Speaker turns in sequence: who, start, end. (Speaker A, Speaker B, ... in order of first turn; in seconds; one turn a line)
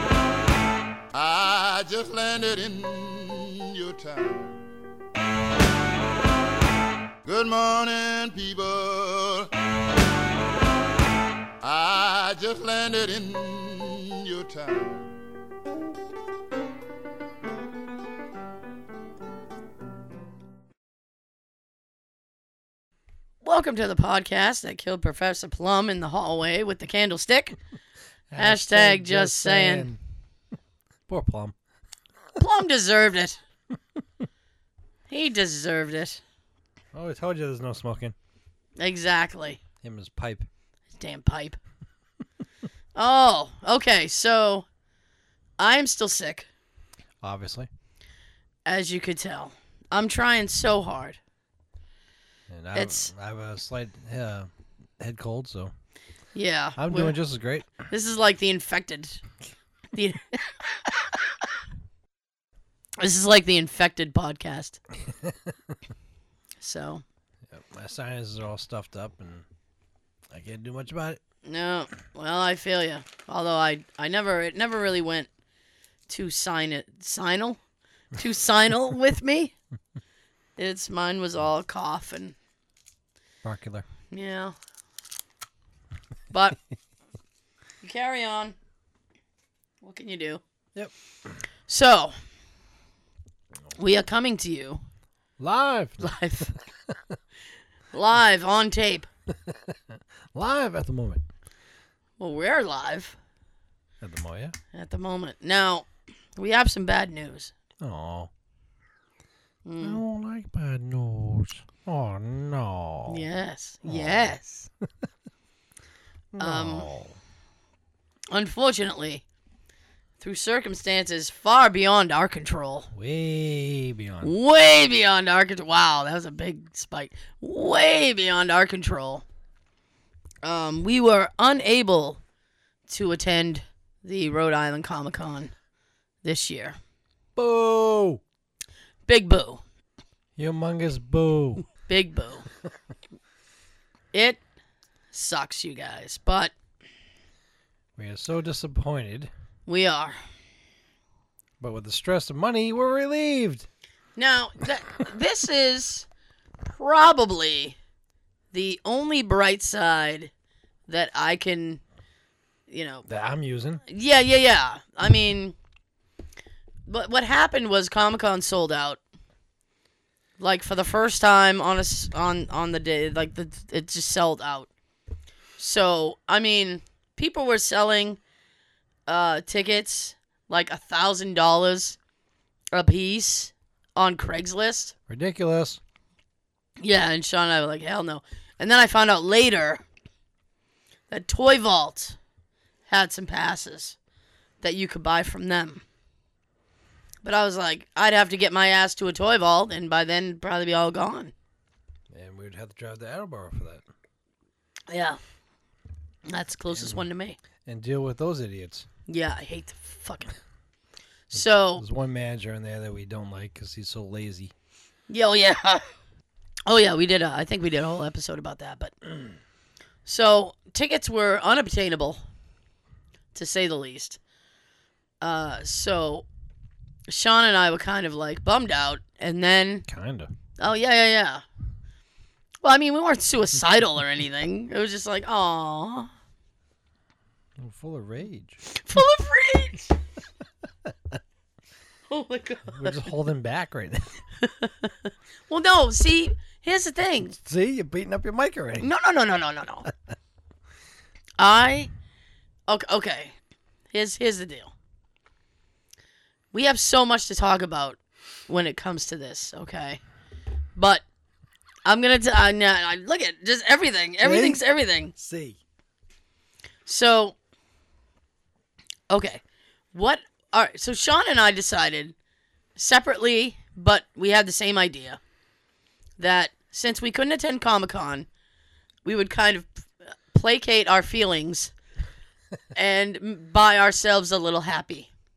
Speaker A: 1.1-4.6
Speaker A: 7.2-9.5
Speaker A: 11.6-15.1
Speaker B: 23.4-27.6
Speaker C: 28.3-30.0
Speaker B: 28.4-29.9
Speaker C: 31.1-31.6
Speaker B: 32.4-33.4
Speaker B: 35.1-36.2
Speaker C: 36.9-38.1
Speaker B: 38.8-39.6
Speaker C: 39.8-40.5
Speaker B: 41.0-41.6
Speaker B: 43.0-44.7
Speaker B: 45.6-46.5
Speaker C: 47.2-47.7
Speaker B: 48.7-51.2
Speaker C: 52.5-55.7
Speaker B: 52.7-53.1
Speaker B: 56.3-57.2
Speaker C: 56.8-57.9
Speaker B: 57.8-59.2
Speaker B: 59.9-60.8
Speaker B: 63.0-64.8
Speaker C: 65.1-65.5
Speaker B: 66.6-67.0
Speaker C: 67.5-69.5
Speaker C: 70.3-71.2
Speaker B: 71.5-75.3
Speaker B: 76.1-77.6
Speaker B: 78.2-79.5
Speaker B: 80.6-82.4
Speaker C: 83.4-83.9
Speaker B: 84.1-84.5
Speaker B: 86.3-86.6
Speaker B: 87.8-88.6
Speaker B: 89.8-90.4
Speaker B: 91.7-92.2
Speaker B: 93.8-94.8
Speaker C: 95.4-96.1
Speaker B: 96.0-96.5
Speaker B: 97.9-99.1
Speaker C: 99.5-101.2
Speaker B: 102.2-103.2
Speaker C: 104.0-104.5
Speaker B: 104.7-107.5
Speaker C: 107.8-108.3
Speaker B: 109.7-110.0
Speaker C: 109.8-113.2
Speaker B: 113.1-114.7
Speaker C: 113.8-114.3
Speaker C: 116.3-117.2
Speaker B: 116.4-116.9
Speaker B: 118.3-119.2
Speaker B: 120.2-122.9
Speaker C: 122.9-124.3
Speaker B: 124.2-129.2
Speaker B: 130.4-132.2
Speaker B: 132.9-135.5
Speaker B: 136.2-136.8
Speaker C: 137.4-138.2
Speaker B: 139.1-139.6
Speaker C: 140.4-141.7
Speaker B: 141.9-142.5
Speaker B: 144.1-144.4
Speaker B: 145.1-146.5
Speaker C: 148.0-149.3
Speaker B: 149.7-150.2
Speaker C: 151.6-153.7
Speaker B: 154.2-156.1
Speaker B: 156.6-157.8
Speaker B: 158.5-160.3
Speaker B: 160.9-161.8
Speaker B: 162.7-163.1
Speaker C: 163.1-163.8
Speaker B: 163.9-165.6
Speaker B: 166.9-169.0
Speaker B: 170.4-174.7
Speaker B: 175.6-178.2
Speaker B: 179.1-182.0
Speaker B: 182.7-184.9
Speaker C: 185.1-185.8
Speaker B: 186.8-189.8
Speaker B: 191.1-192.2
Speaker B: 192.9-194.0
Speaker B: 194.6-195.8
Speaker B: 197.2-201.3
Speaker C: 202.1-203.8
Speaker B: 204.9-205.2
Speaker B: 206.3-207.4
Speaker C: 206.7-207.1
Speaker C: 207.7-208.9
Speaker B: 209.1-210.3
Speaker B: 211.3-211.8
Speaker C: 211.3-214.5
Speaker B: 215.1-215.8
Speaker B: 216.7-218.9
Speaker B: 220.1-222.2
Speaker B: 223.3-224.2
Speaker B: 225.2-226.3
Speaker B: 227.1-229.9
Speaker C: 229.9-230.3
Speaker B: 230.6-231.4
Speaker B: 232.6-236.1
Speaker C: 237.6-238.6
Speaker B: 238.7-239.9
Speaker B: 242.1-243.0
Speaker C: 242.7-244.2
Speaker B: 244.4-247.3
Speaker C: 247.2-248.9
Speaker B: 248.8-249.9
Speaker B: 251.4-251.9
Speaker B: 252.7-253.4
Speaker B: 253.9-254.7
Speaker B: 256.5-260.0
Speaker B: 260.8-261.0
Speaker B: 261.9-265.1
Speaker C: 264.2-265.6
Speaker B: 266.9-267.4
Speaker B: 269.1-269.4
Speaker B: 269.9-272.1
Speaker B: 272.8-275.2
Speaker B: 276.2-278.3
Speaker B: 279.1-281.7
Speaker B: 282.8-285.1